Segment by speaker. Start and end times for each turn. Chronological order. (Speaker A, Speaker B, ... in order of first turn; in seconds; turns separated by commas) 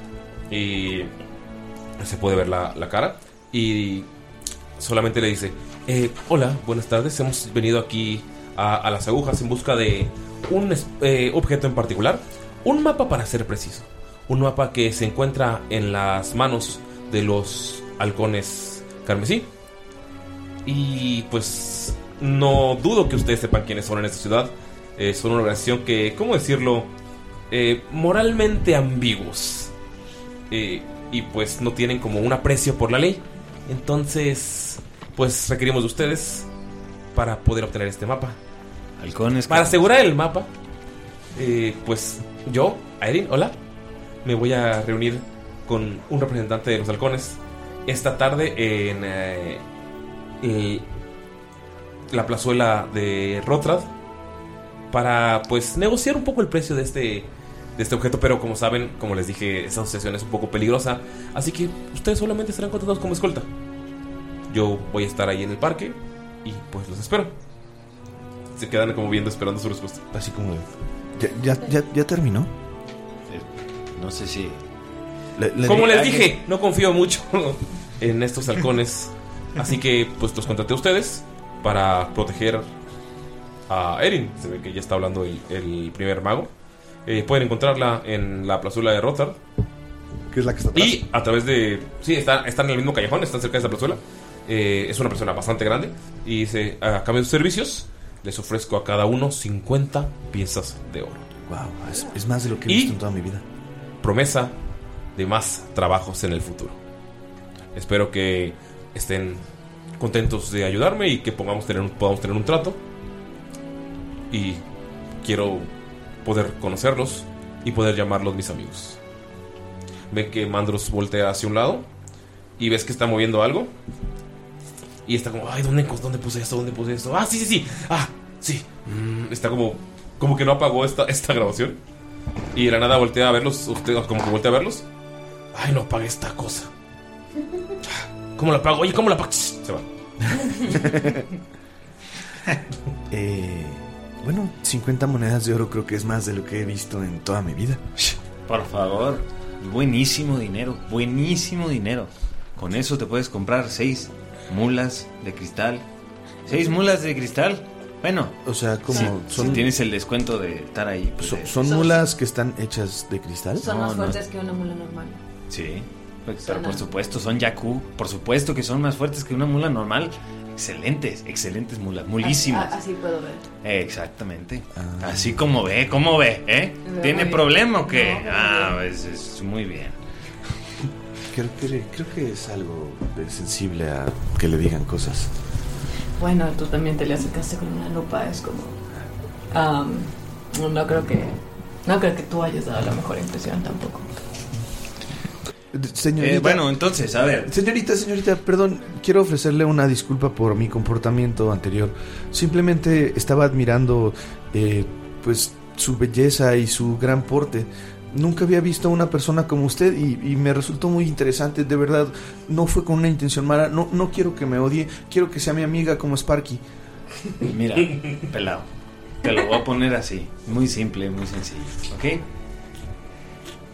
Speaker A: 0.5-1.1, Speaker A: 2.0-4.1, Speaker A: 4.8-19.5, Speaker A: 20.7-26.9, Speaker A: 27.5-29.7, Speaker A: 30.5-36.5, Speaker A: 37.1-38.4, Speaker B: 39.0-39.9, Speaker A: 39.5-40.5, Speaker A: 41.4-43.5, Speaker A: 44.2-49.6, Speaker A: 50.4-50.9, Speaker A: 52.1-53.9, Speaker A: 54.9-63.5, Speaker A: 64.5-67.3, Speaker A: 68.5-70.0, Speaker C: 70.1-72.5, Speaker B: 73.3-74.6, Speaker C: 75.4-76.1, Speaker A: 75.6-82.7, Speaker B: 75.8-76.2, Speaker A: 83.7-86.5, Speaker A: 87.0-89.4, Speaker C: 90.3-91.0, Speaker A: 90.7-101.3, Speaker C: 101.5-103.4, Speaker A: 102.7-103.0, Speaker A: 104.0-104.5, Speaker A: 105.2-106.8, Speaker A: 107.8-109.4, Speaker A: 110.0-112.8, Speaker A: 114.3-114.6, Speaker A: 115.2-115.7, Speaker A: 116.2-119.0, Speaker A: 120.1-121.9, Speaker A: 122.6-123.7, Speaker A: 125.1-131.8, Speaker A: 132.5-134.8, Speaker A: 135.5-136.7, Speaker A: 137.9-140.6, Speaker C: 140.9-141.2, Speaker C: 143.1-147.8, Speaker B: 148.0-155.8, Speaker B: 156.5-161.5, Speaker C: 158.4-159.7, Speaker C: 161.2-163.7, Speaker D: 161.6-162.1, Speaker D: 163.6-165.2, Speaker B: 163.7-164.2, Speaker B: 165.5-172.8, Speaker D: 166.4-166.8, Speaker D: 172.2-173.4, Speaker B: 173.6-180.0, Speaker C: 174.8-175.4, Speaker D: 176.8-178.8, Speaker C: 181.3-185.3, Speaker D: 186.2-188.8, Speaker D: 189.5-194.1, Speaker C: 195.7-196.7, Speaker B: 196.2-197.5, Speaker C: 197.4-216.6, Speaker B: 217.5-218.7, Speaker B: 219.2-222.2